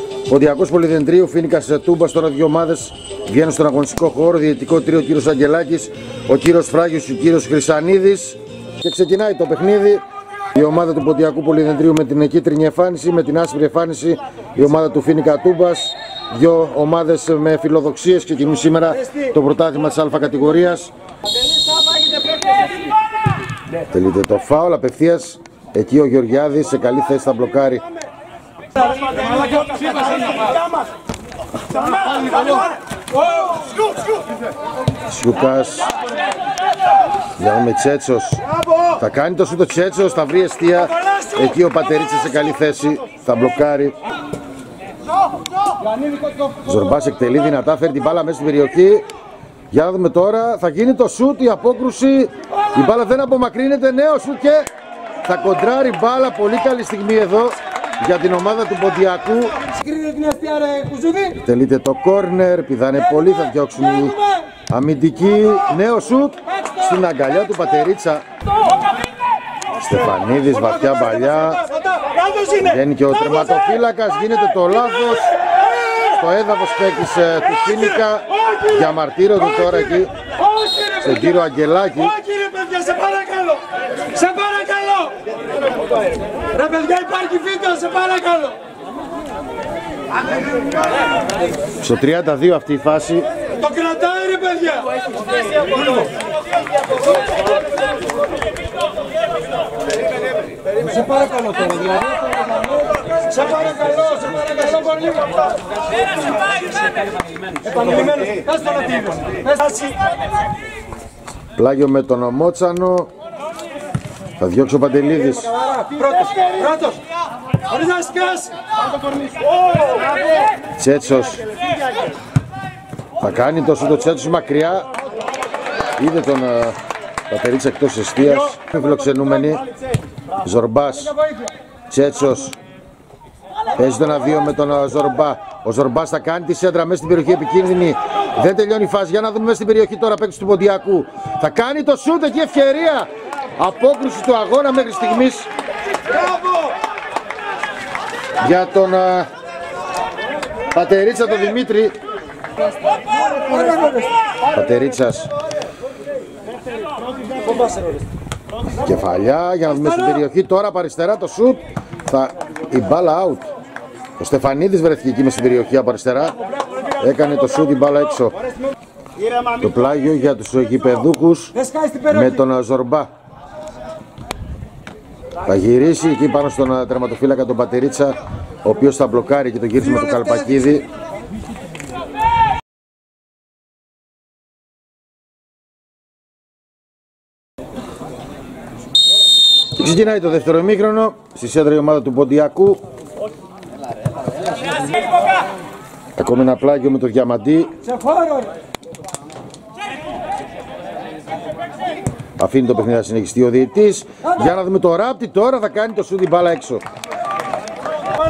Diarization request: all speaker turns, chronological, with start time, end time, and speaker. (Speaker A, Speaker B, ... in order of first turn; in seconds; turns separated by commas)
Speaker A: 0.3-20.9, Speaker B: 22.1-22.4, Speaker A: 23.9-27.9, Speaker B: 29.1-29.6, Speaker A: 35.1-35.9, Speaker A: 37.4-38.4, Speaker A: 38.9-44.0, Speaker A: 46.5-49.0, Speaker A: 49.7-54.7, Speaker A: 55.2-59.6, Speaker B: 59.7-61.3, Speaker A: 61.3-68.2, Speaker A: 69.8-71.7, Speaker A: 72.5-80.1, Speaker B: 80.5-80.9, Speaker A: 80.9-82.2, Speaker B: 82.2-85.2, Speaker B: 86.5-88.6, Speaker A: 91.8-93.3, Speaker B: 93.6-95.0, Speaker B: 100.8-105.4, Speaker B: 107.6-110.0, Speaker A: 111.5-113.1, Speaker A: 114.4-115.6, Speaker B: 115.7-117.0, Speaker B: 117.7-118.5, Speaker A: 120.7-121.5, Speaker A: 123.2-124.9, Speaker A: 126.0-126.8, Speaker A: 127.3-129.7, Speaker A: 130.4-131.2, Speaker A: 131.9-132.6, Speaker A: 133.7-145.5, Speaker A: 148.4-149.3, Speaker A: 150.7-151.9, Speaker A: 154.5-155.3, Speaker A: 158.8-163.5, Speaker A: 164.2-166.4, Speaker A: 166.9-168.3, Speaker A: 169.5-173.1, Speaker B: 171.7-172.1, Speaker A: 175.4-180.8, Speaker A: 189.7-192.8, Speaker A: 196.2-197.8, Speaker B: 198.0-198.5, Speaker A: 202.4-206.8